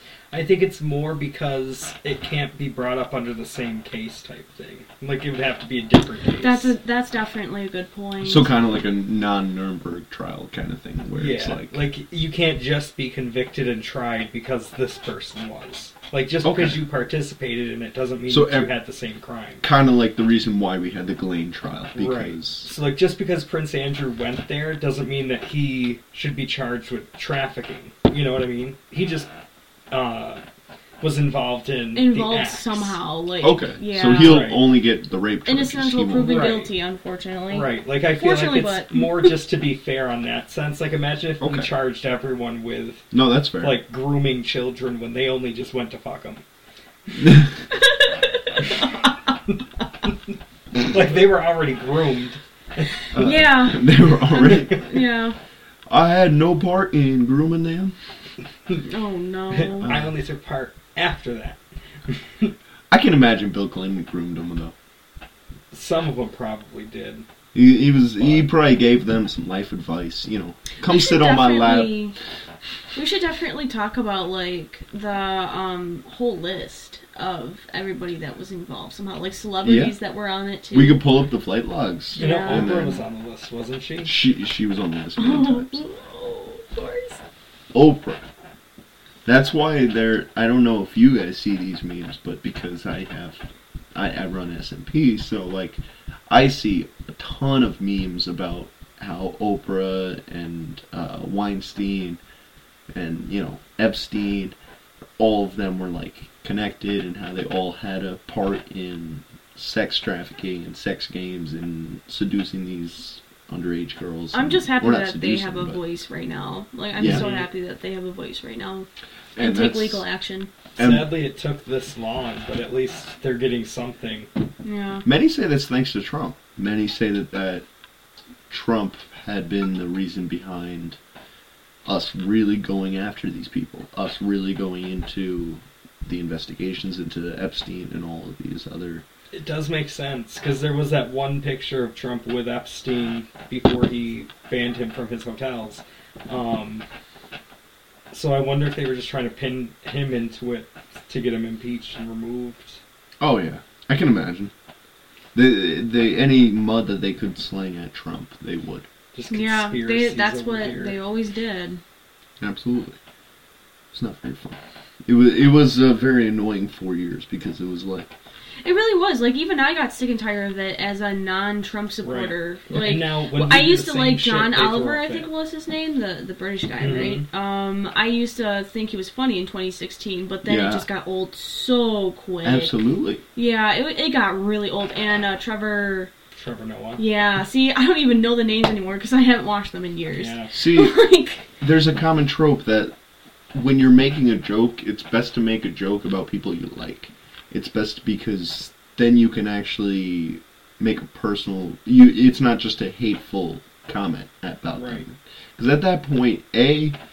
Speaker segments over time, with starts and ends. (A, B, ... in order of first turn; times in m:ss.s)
0:00.3-0:06.7 A
0:06.4-0:08.5 B
0:08.2-0:11.8 C
0:11.2-0:19.6 A
0:16.4-0:16.8 C
0:18.3-0:18.7 C
0:19.6-0:22.7 C
0:21.9-0:29.3 A
0:29.9-0:30.4 A
0:31.0-0:33.0 A
0:31.9-0:34.5 B
0:33.4-0:36.4 C
0:34.1-0:34.6 A
0:35.5-0:39.3 B
0:36.2-0:36.7 A
0:37.5-0:46.4 A
0:41.4-0:41.7 C
0:43.1-0:43.8 C
0:47.2-0:47.5 C
0:47.7-0:48.8 B
0:50.8-0:53.0 A
0:53.1-0:54.8 C
0:53.1-0:55.4 B
0:55.9-0:57.9 C
0:58.8-0:59.9 B
0:59.5-1:02.6 A
0:59.8-1:00.1 C
1:02.9-1:04.8 C
1:05.7-1:07.2 A
1:07.5-1:12.0 C
1:08.2-1:08.5 A
1:10.8-1:12.2 B
1:12.9-1:21.0 B
1:19.6-1:20.0 C
1:20.7-1:23.0 C
1:22.2-1:24.1 A
1:22.2-1:22.9 B
1:24.0-1:25.8 C
1:25.2-1:27.2 B
1:27.7-1:28.3 C
1:29.2-1:33.4 C
1:33.9-1:42.2 C
1:42.9-1:44.6 C
1:45.2-1:55.8 C
1:54.3-2:00.5 B
1:57.0-1:57.2 C
1:57.0-1:57.5 A
1:59.4-2:00.0 C
2:00.8-2:01.1 C
2:00.8-2:04.3 A
2:04.6-2:05.0 B
2:05.0-2:07.7 C
2:08.5-2:11.0 C
2:11.9-2:19.0 C
2:19.3-2:26.9 A
2:28.1-2:32.8 A
2:33.2-2:34.5 C
2:35.4-2:38.9 C
2:39.1-2:41.0 A
2:39.3-2:41.8 B
2:42.4-2:43.0 C
2:43.9-2:48.2 C
2:48.6-3:02.7 B
2:52.0-2:55.3 A
2:56.8-2:57.2 A
3:00.4-3:00.9 C
3:02.4-3:03.2 C
3:03.4-3:06.1 B
3:06.4-3:07.0 A
3:07.0-3:11.5 B
3:10.1-3:10.5 A
3:10.5-3:11.0 C
3:11.6-3:12.9 C
3:13.5-3:27.0 C
3:24.8-3:25.0 A